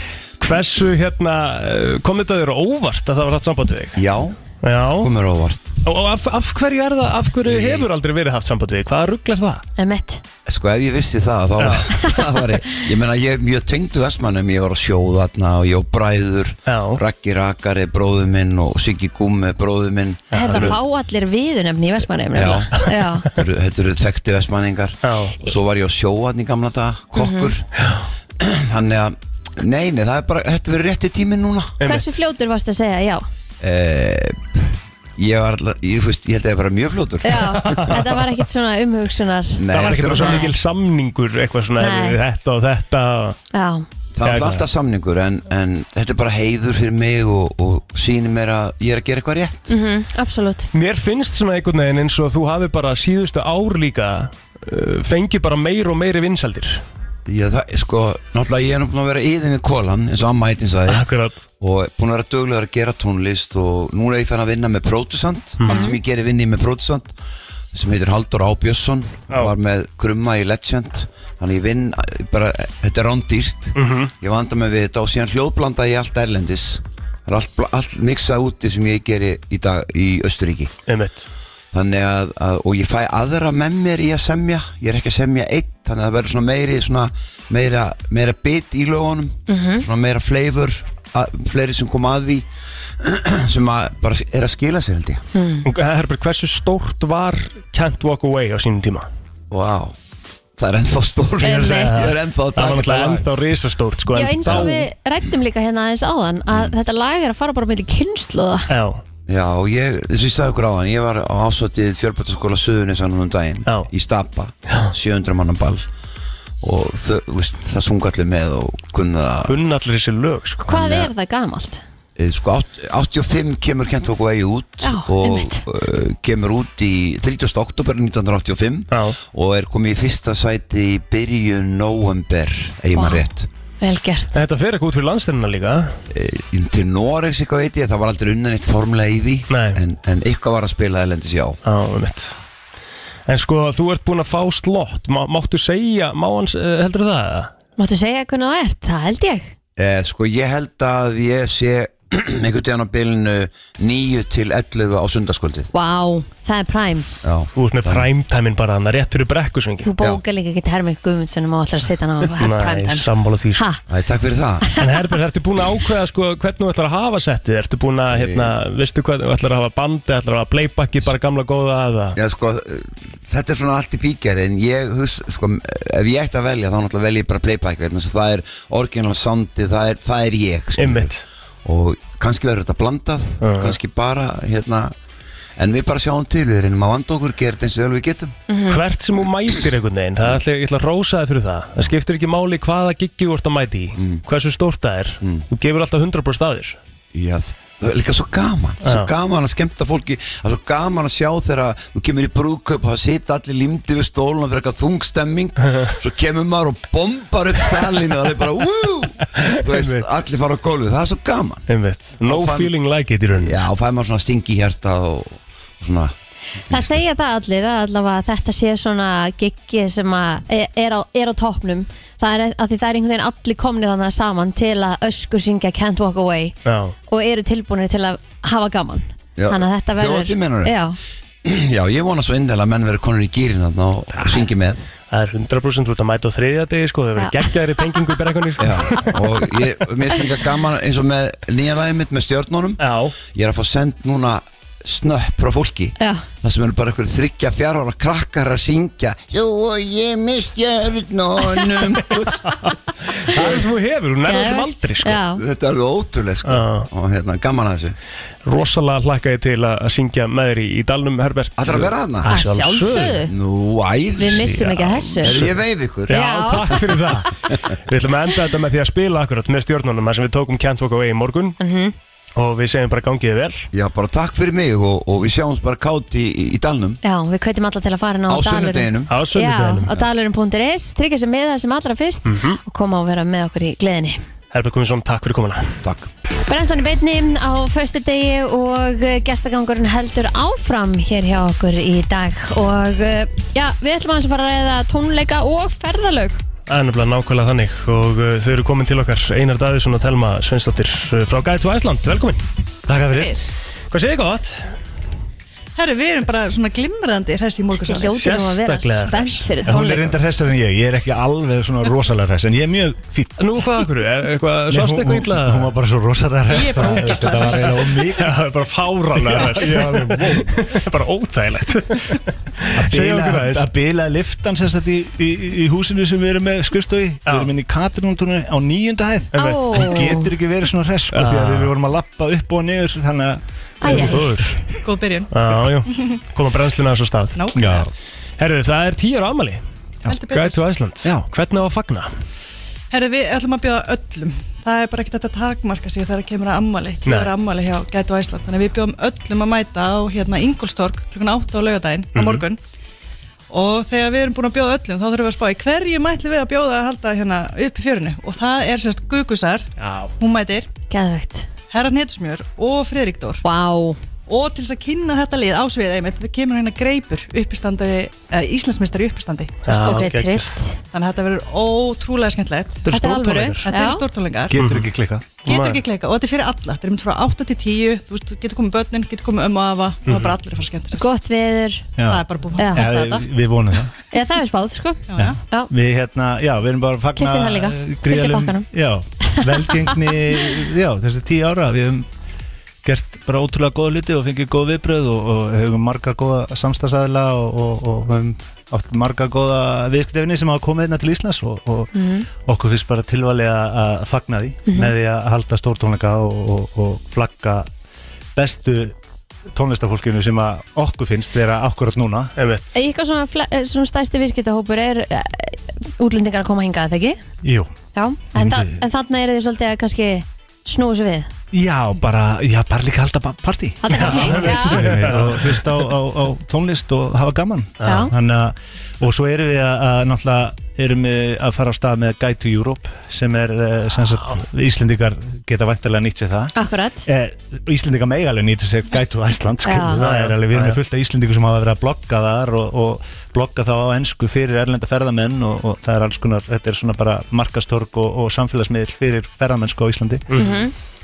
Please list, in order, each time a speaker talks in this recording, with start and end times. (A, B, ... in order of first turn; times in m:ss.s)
0:00.4-0:04.0 A
0:04.0-0:04.4 B
0:04.6-0:05.1 A
0:05.0-0:05.7 B
0:05.8-0:09.6 A
0:07.4-0:07.9 B
0:09.8-0:10.2 C
0:10.5-0:20.8 B
0:11.6-0:11.9 A
0:16.7-0:17.0 A
0:20.3-0:20.8 A
0:20.3-0:23.3 C
0:22.3-0:27.7 B
0:25.0-0:25.4 A
0:27.2-0:27.5 C
0:28.4-0:31.7 B
0:31.8-0:32.0 A
0:31.8-0:33.2 C
0:33.6-0:37.9 B
0:37.2-0:40.5 C
0:37.4-0:38.2 A
0:39.6-0:40.5 B
0:39.7-0:43.4 A
0:41.8-0:42.2 C
0:43.5-0:43.8 C
0:44.1-0:49.7 B
0:44.2-0:44.6 A
0:49.7-0:50.7 C
0:50.7-0:56.8 A
0:57.3-1:01.1 B
1:00.9-1:01.4 A
1:01.6-1:07.1 B
1:05.6-1:05.9 A
1:05.6-1:06.0 C
1:07.7-1:20.7 B
1:09.3-1:09.5 A
1:13.7-1:14.1 A
1:20.9-1:21.3 A
1:21.7-1:32.4 B
1:29.5-1:29.8 C
1:33.0-1:35.2 B
1:35.3-1:35.7 C
1:35.6-1:39.1 A
1:39.5-1:40.0 B
1:40.6-1:43.3 B
1:41.4-1:42.1 C
1:41.4-1:44.8 A
1:44.1-1:48.7 C
1:44.4-1:44.7 B
1:48.7-1:49.0 A
1:49.3-1:55.8 B
1:53.6-1:53.9 A
1:56.6-1:59.5 B
1:59.5-2:01.1 A
2:00.6-2:01.8 C
2:02.2-2:13.5 B
2:04.8-2:05.6 C
2:08.9-2:09.2 A
2:12.9-2:13.2 C
2:13.8-2:14.4 C
2:14.3-2:16.0 A
2:16.1-2:21.6 B
2:19.5-2:19.8 A
2:21.6-2:22.4 A
2:23.2-2:27.5 A
2:27.8-2:29.5 C
2:29.8-2:35.7 B
2:35.7-2:37.1 C
2:37.2-2:38.0 B
2:37.5-2:39.9 A
2:39.8-2:43.8 C
2:42.4-2:43.6 A
2:43.9-2:44.7 B
2:44.8-2:52.2 A
2:48.1-2:48.5 B
2:52.2-3:01.1 B
3:00.8-3:01.2 A
3:01.6-3:04.9 B
3:03.4-3:03.8 A
3:05.6-3:08.3 B
3:08.5-3:08.8 C
3:08.7-3:16.8 A
3:14.0-3:14.2 B
3:17.1-3:31.6 B
3:18.8-3:19.1 A
3:29.4-3:30.1 A
3:31.7-3:33.7 A
3:32.2-3:32.7 B
3:33.3-3:36.1 B
3:36.7-3:37.0 B
3:36.7-3:46.6 C
3:46.6-3:47.0 A
3:47.1-3:51.0 C
3:49.4-3:50.8 B
3:51.4-3:54.8 B
3:54.1-3:54.5 A
3:55.1-3:59.2 A
3:57.2-3:57.4 C
3:58.6-4:12.6 B
4:02.8-4:03.1 A
4:06.0-4:06.3 C
4:12.5-4:15.2 A
4:13.3-4:13.7 B
4:14.2-4:15.4 C
4:15.4-4:17.9 B
4:16.4-4:16.9 A
4:18.4-4:23.2 A
4:21.6-4:22.3 B
4:22.3-4:23.3 C
4:23.2-4:26.2 B
4:24.2-4:25.5 C
4:25.2-4:25.5 A
4:26.1-4:27.0 C
4:26.1-4:31.6 A
4:31.6-4:31.9 C
4:32.4-4:33.7 A
4:33.7-4:37.0 B
4:37.0-4:44.2 C
4:38.3-4:39.1 B
4:39.1-4:40.0 A
4:42.2-4:42.6 A
4:44.5-4:45.7 A
4:45.8-4:46.1 B
4:46.5-4:56.4 C
4:56.7-5:02.4 A
5:02.9-5:03.4 D
5:03.9-5:04.8 A
5:05.8-5:08.2 E
5:07.8-5:10.2 C
5:08.1-5:09.5 A
5:09.6-5:13.4 D
5:13.4-5:15.7 A
5:14.7-5:18.4 D
5:16.5-5:18.0 E
5:17.4-5:23.7 A
5:19.2-5:20.6 D
5:22.8-5:34.1 D
5:27.2-5:27.5 A
5:29.3-5:29.9 A
5:29.3-5:30.3 C
5:31.1-5:31.7 A
5:33.8-5:34.3 C
5:33.8-5:34.6 A
5:34.8-5:36.2 E
5:35.3-5:37.4 A
5:37.4-5:37.8 E
5:37.5-5:37.9 D
5:38.4-5:39.6 A
5:40.1-5:40.6 E
5:40.3-5:42.1 A
5:42.9-5:52.6 E
5:47.0-5:47.3 A
5:52.1-5:52.4 A
5:53.5-6:00.7 E
5:59.8-6:00.1 A
6:00.9-6:01.5 C
6:01.7-6:03.4 E
6:03.4-6:04.0 C
6:04.3-6:09.6 E
6:09.6-6:10.6 A
6:09.7-6:10.8 C
6:10.9-6:12.8 E
6:12.8-6:13.7 A
6:12.9-6:14.0 C
6:13.6-6:14.6 E
6:14.5-6:15.4 D
6:14.5-6:14.9 A
6:15.4-6:21.0 E
6:15.4-6:15.8 A
6:20.0-6:20.4 A
6:20.9-6:21.9 C
6:22.0-6:23.9 D
6:22.1-6:23.2 E
6:22.6-6:22.9 C
6:24.1-6:25.7 C
6:25.1-6:25.4 E
6:25.2-6:32.0 D
6:27.2-6:28.7 C
6:29.2-6:29.5 C
6:32.8-6:47.7 D
6:41.9-6:42.3 C
6:44.7-6:44.9 C
6:48.4-6:49.0 D
6:49.5-6:52.3 D
6:52.4-6:52.7 A
6:52.7-6:57.2 C
6:57.4-6:57.7 D
6:57.9-7:01.3 C
6:58.3-6:58.8 D
7:01.5-7:16.5 D
7:03.8-7:05.1 C
7:03.9-7:05.9 A
7:07.8-7:08.1 A
7:07.8-7:08.1 C
7:13.9-7:14.4 A
7:16.5-7:17.1 C
7:17.0-7:30.4 D
7:19.6-7:20.0 C
7:19.9-7:20.8 A
7:30.3-7:30.6 A
7:30.4-7:30.7 C